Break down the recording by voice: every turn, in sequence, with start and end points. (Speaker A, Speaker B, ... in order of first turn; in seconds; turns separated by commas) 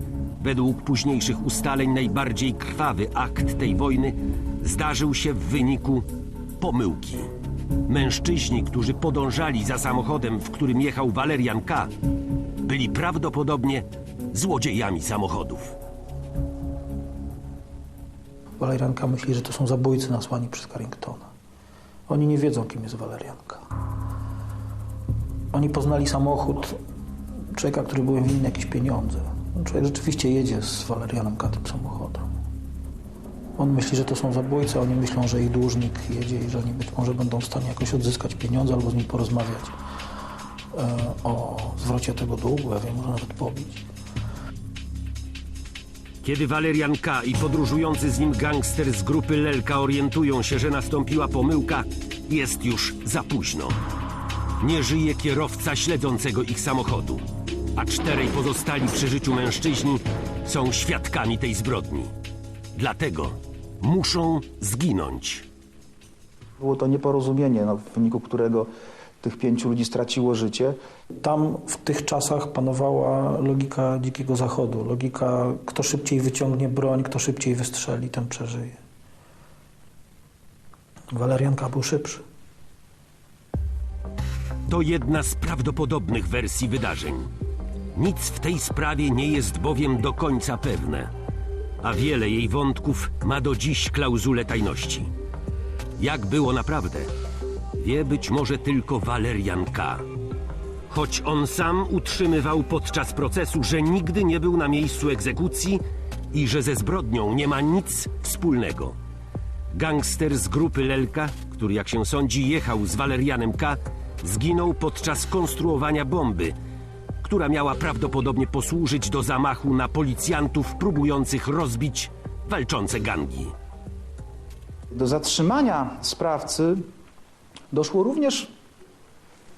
Speaker A: 0.4-6.1, Speaker A: 6.6-7.3, Speaker A: 7.9-11.9, Speaker A: 12.6-15.8, Speaker B: 18.6-21.3, Speaker B: 22.1-23.7, Speaker B: 25.5-26.8, Speaker B: 27.5-32.3, Speaker B: 33.6-39.7, Speaker B: 40.7-43.8, Speaker A: 46.2-53.8, Speaker A: 54.6-62.1, Speaker A: 62.8-65.5, Speaker C: 66.6-68.7, Speaker C: 69.2-70.8, Speaker B: 71.2-78.8, Speaker B: 81.1-82.2, Speaker A: 84.7-87.3, Speaker A: 88.0-91.1, Speaker A: 91.8-95.1, Speaker A: 96.0-97.1, Speaker A: 97.8-100.0, Speaker A: 100.9-109.0, Speaker A: 109.7-116.6, Speaker A: 117.2-123.5, Speaker C: 124.9-126.8, Speaker C: 127.7-128.5